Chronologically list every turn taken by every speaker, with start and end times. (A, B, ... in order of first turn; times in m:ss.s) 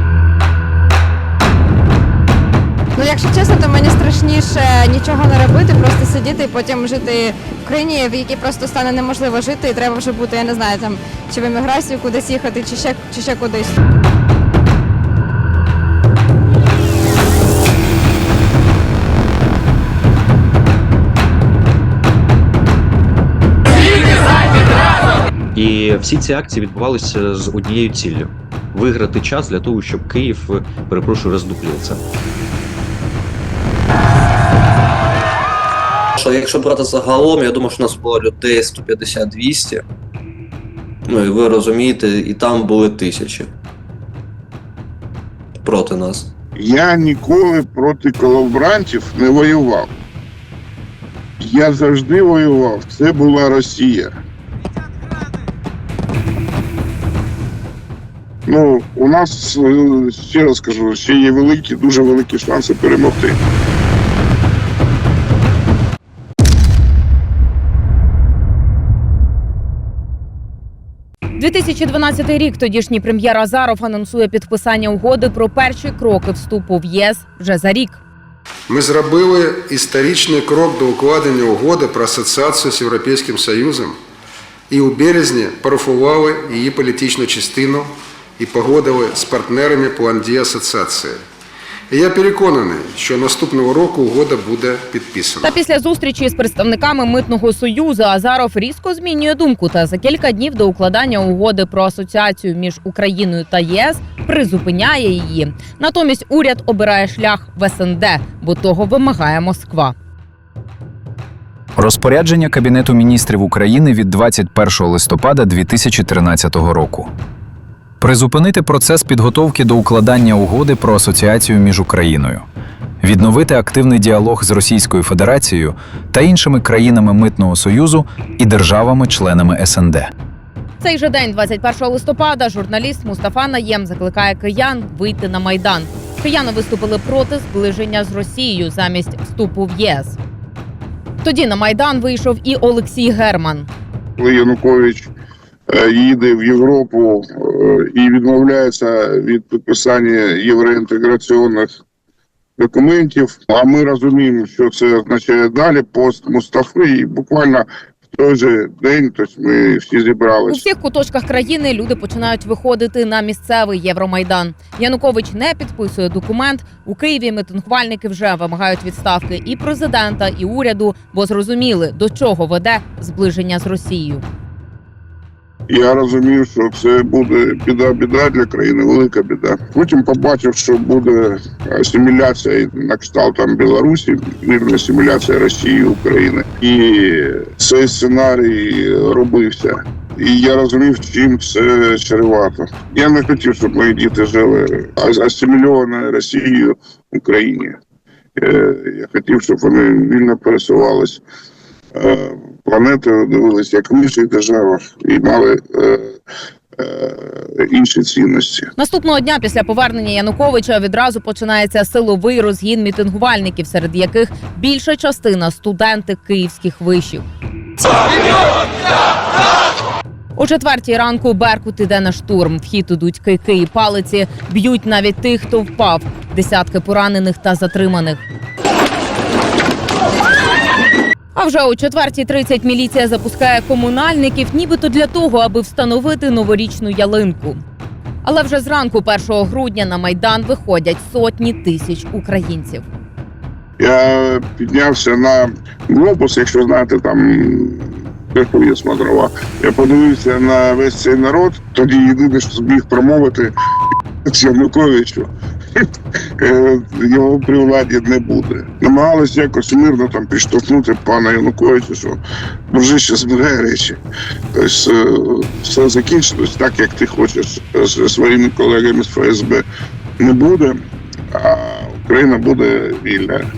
0:03.0-0:13.8 A
0:25.6-0:32.0 B
0:36.2-0:39.8 C
0:41.1-0:43.5 C
0:45.6-0:46.3 C
0:46.6-0:49.9 D
0:51.4-0:54.1 D
0:58.5-1:03.4 D
1:11.4-1:18.0 E
1:18.7-1:24.0 F
1:24.7-1:31.2 F
1:31.9-1:35.6 F
1:35.4-1:50.0 E
1:51.8-1:57.1 G
1:58.0-2:02.4 G
2:03.0-2:10.1 G
2:10.8-2:20.2 E
2:21.2-2:23.7 E
2:24.2-2:25.1 D
2:25.7-2:31.7 D
2:32.6-2:40.6 D
2:40.5-2:54.2 E
2:55.7-3:17.8 D
3:18.4-3:21.2 D
3:22.0-3:26.2 D
3:26.8-3:28.7 D
3:28.8-3:37.2 E
3:40.4-3:48.2 E
3:51.4-3:57.6 E
3:58.2-4:02.9 E
4:03.8-4:13.5 D
4:14.2-4:15.9 D
4:16.4-4:24.0 D
4:24.5-4:29.6 D
4:30.2-4:30.8 D
4:31.3-4:33.5 D